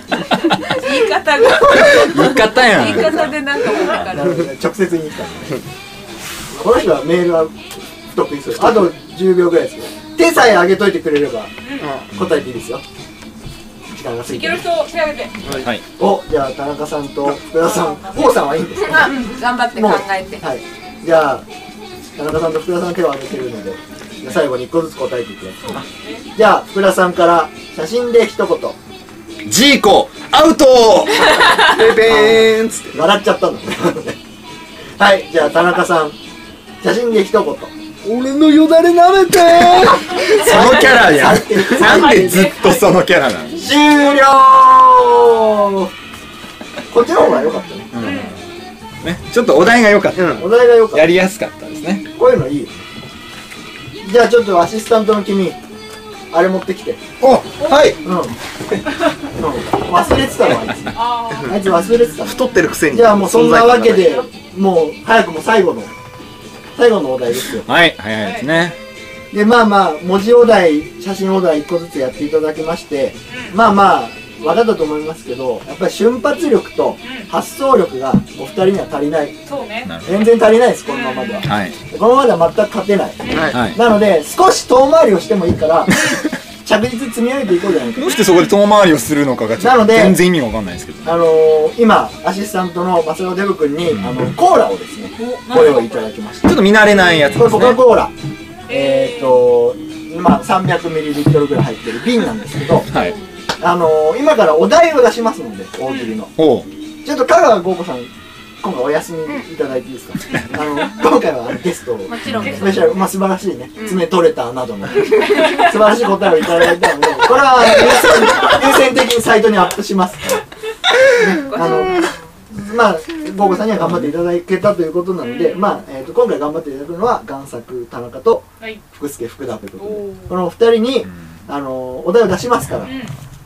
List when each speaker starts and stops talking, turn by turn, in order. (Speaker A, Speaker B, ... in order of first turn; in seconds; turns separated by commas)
Speaker A: 0.4-4.4, Speaker B: 1.6-3.4, Speaker C: 4.0-5.6, Speaker C: 6.5-11.5, Speaker D: 11.6-11.9, Speaker E: 11.8-12.1, Speaker C: 12.1-12.8, Speaker C: 13.9-14.6, Speaker D: 14.3-15.3, Speaker E: 15.4-15.7, Speaker B: 15.5-15.8, Speaker C: 16.0-21.4, Speaker D: 17.5-19.2, Speaker A: 18.8-20.4, Speaker C: 22.1-28.8, Speaker D: 25.6-26.3, Speaker B: 29.4-31.6, Speaker E: 31.6-33.0, Speaker C: 32.0-34.2, Speaker C: 35.0-36.2, Speaker C: 36.8-37.7, Speaker E: 38.0-40.3, Speaker B: 39.8-43.7, Speaker C: 40.2-42.7, Speaker D: 41.8-42.9, Speaker C: 43.5-45.9, Speaker C: 46.9-47.9, Speaker B: 47.9-48.4, Speaker D: 48.0-48.4, Speaker B: 49.0-52.1, Speaker E: 50.2-50.4, Speaker C: 50.3-51.1, Speaker C: 52.1-52.8, Speaker C: 54.0-55.6, Speaker C: 56.3-57.0, Speaker E: 57.2-58.0, Speaker D: 57.6-58.0, Speaker C: 58.0-58.3, Speaker C: 59.4-65.9, Speaker D: 60.2-61.8, Speaker E: 62.2-64.2, Speaker C: 66.8-67.7, Speaker B: 67.5-68.8, Speaker D: 68.2-68.7, Speaker C: 69.3-79.4, Speaker D: 73.3-73.5, Speaker D: 77.0-77.3, Speaker D: 79.5-79.9, Speaker B: 79.8-80.2, Speaker C: 80.0-86.1, Speaker D: 80.8-81.5, Speaker B: 81.4-81.8, Speaker D: 83.2-83.5, Speaker E: 83.3-83.5, Speaker B: 83.5-83.8, Speaker C: 86.6-88.2, Speaker B: 88.0-91.2, Speaker D: 88.1-88.5, Speaker C: 89.6-90.2, Speaker C: 91.0-96.7, Speaker B: 93.9-94.2, Speaker D: 95.2-96.1, Speaker B: 96.4-97.8, Speaker C: 97.3-98.1, Speaker D: 98.7-99.5, Speaker C: 98.7-102.9, Speaker B: 102.9-103.2, Speaker D: 102.9-103.3, Speaker C: 103.6-106.3, Speaker D: 105.9-106.1, Speaker B: 106.4-106.7, Speaker C: 107.0-108.1, Speaker C: 108.6-120.4, Speaker A: 112.1-113.0, Speaker B: 112.2-112.6, Speaker D: 112.4-113.0, Speaker A: 113.8-114.1, Speaker A: 115.2-115.6, Speaker D: 115.3-115.7, Speaker C: 121.1-132.9, Speaker A: 121.3-122.2, Speaker D: 125.2-125.8, Speaker D: 129.8-130.3, Speaker D: 132.8-133.1